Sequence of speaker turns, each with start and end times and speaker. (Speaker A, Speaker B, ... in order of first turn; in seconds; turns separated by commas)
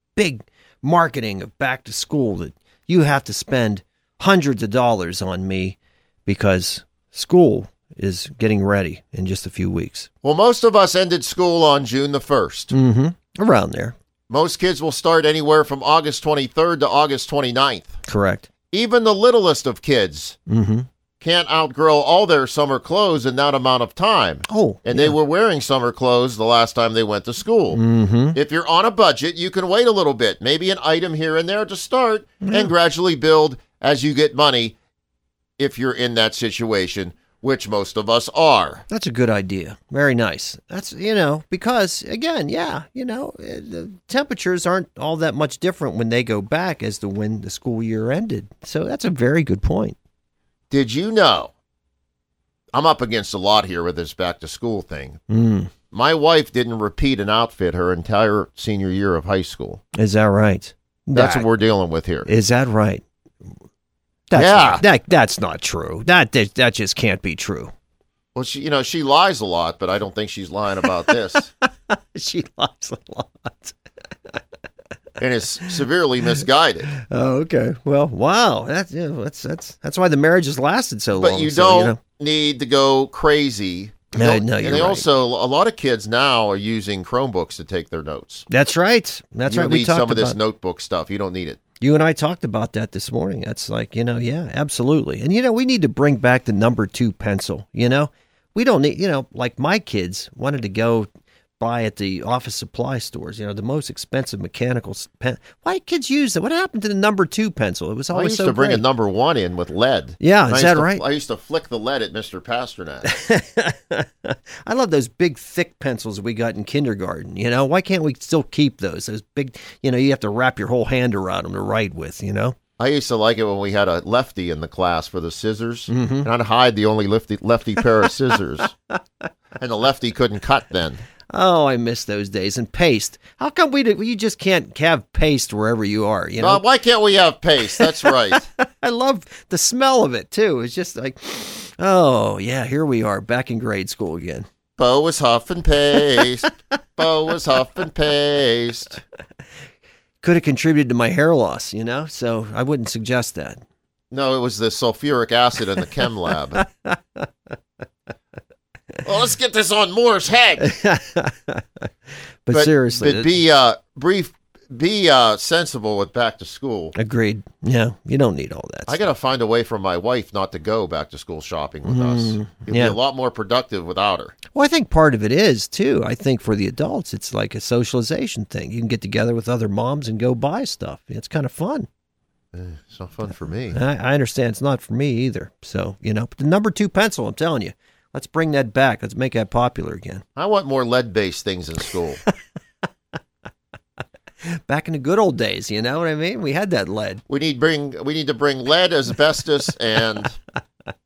Speaker A: 0.1-10.1, Speaker B: 10.2-12.7, Speaker A: 12.7-13.9, Speaker B: 14.3-18.0, Speaker A: 18.1-18.5, Speaker B: 18.7-20.4, Speaker A: 20.5-20.9, Speaker B: 21.2-27.8, Speaker A: 24.5-25.1, Speaker A: 27.7-28.4, Speaker B: 28.3-34.7, Speaker A: 32.4-32.7, Speaker B: 35.6-38.8, Speaker A: 38.9-50.0, Speaker B: 50.7-51.5, Speaker B: 52.7-55.2, Speaker A: 55.3-55.7, Speaker B: 55.9-59.8, Speaker A: 59.9-61.5, Speaker B: 61.1-62.3, Speaker A: 62.2-63.0, Speaker A: 64.3-67.7, Speaker B: 64.3-64.8, Speaker B: 68.3-71.5, Speaker A: 71.6-73.8, Speaker B: 75.2-76.9, Speaker A: 76.9-82.0, Speaker B: 81.2-88.5, Speaker A: 84.1-85.0, Speaker A: 88.5-90.4, Speaker B: 89.5-91.6, Speaker A: 91.8-108.8, Speaker B: 108.1-113.1, Speaker A: 110.2-111.0, Speaker A: 113.0-122.5, Speaker B: 122.8-128.7, Speaker A: 125.9-126.3, Speaker B: 129.6-131.0, Speaker A: 131.3-136.6, Speaker B: 136.4-138.4, Speaker A: 137.8-144.4, Speaker B: 144.8-149.0, Speaker A: 150.2-153.6, Speaker B: 154.1-156.6, Speaker A: 156.6-157.2, Speaker B: 159.0-160.7, Speaker A: 160.6-161.8, Speaker A: 162.4-163.3, Speaker B: 162.5-166.9, Speaker A: 166.9-169.0, Speaker B: 168.9-174.3, Speaker A: 171.8-173.0, Speaker A: 174.5-181.9, Speaker B: 182.5-183.8, Speaker A: 183.7-190.2, Speaker B: 190.4-192.2, Speaker A: 194.7-197.2, Speaker B: 197.3-200.3